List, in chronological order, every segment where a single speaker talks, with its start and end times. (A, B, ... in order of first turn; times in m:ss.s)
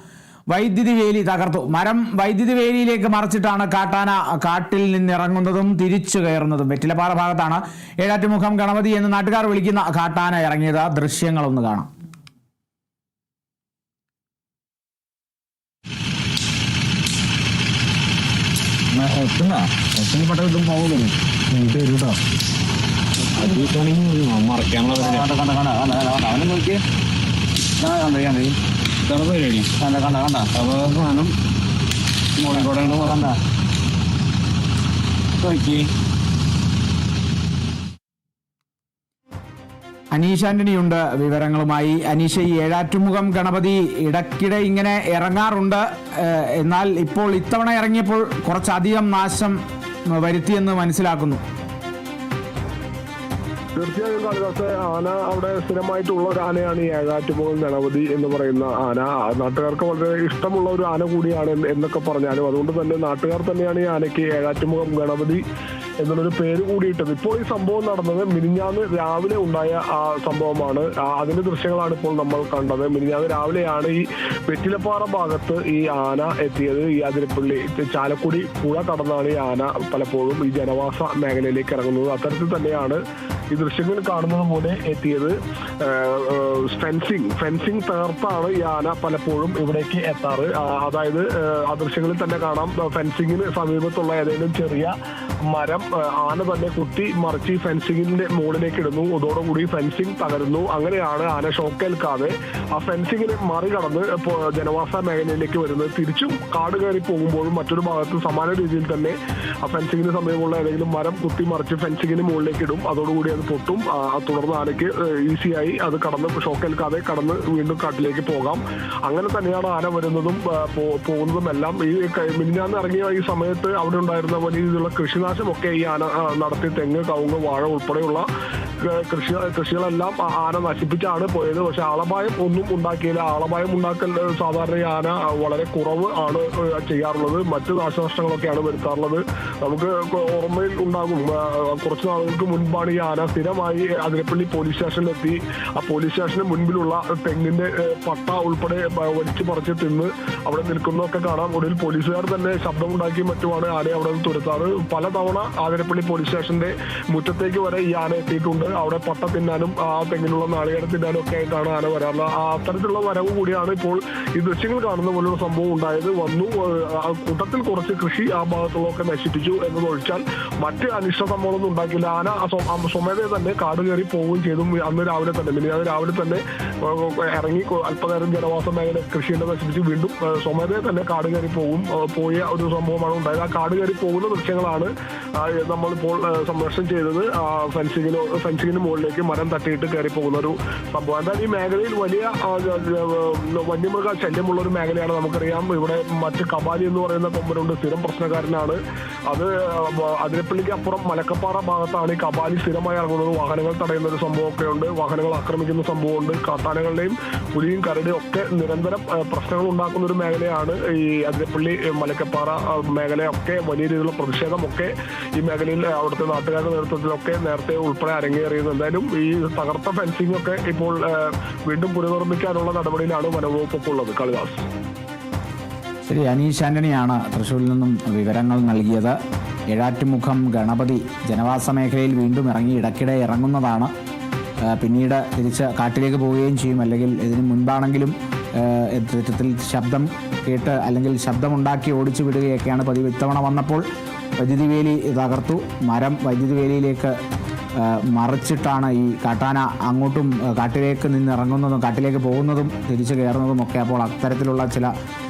0:00.5-0:11.9 A
0:18.9-0:22.2 B
0:23.4-0:25.3 B
0:25.0-0:26.8 C
0:27.8-0:28.6 C
0:29.0-0:29.8 B
0:29.8-0:30.6 C
0:30.5-0:31.3 B
0:32.4-0:33.3 B
0:32.5-0:33.4 C
0:35.4-0:35.8 B
0:35.4-0:35.8 C
0:40.1-0:49.6 A
0:50.1-0:51.4 A
0:53.8-1:05.4 D
1:06.0-1:23.0 D
1:23.5-2:08.3 D
2:08.8-3:44.7 D
3:46.1-3:49.2 A
3:49.7-3:53.9 A
3:54.7-4:03.8 A
4:04.4-4:07.2 A
4:07.8-4:14.9 A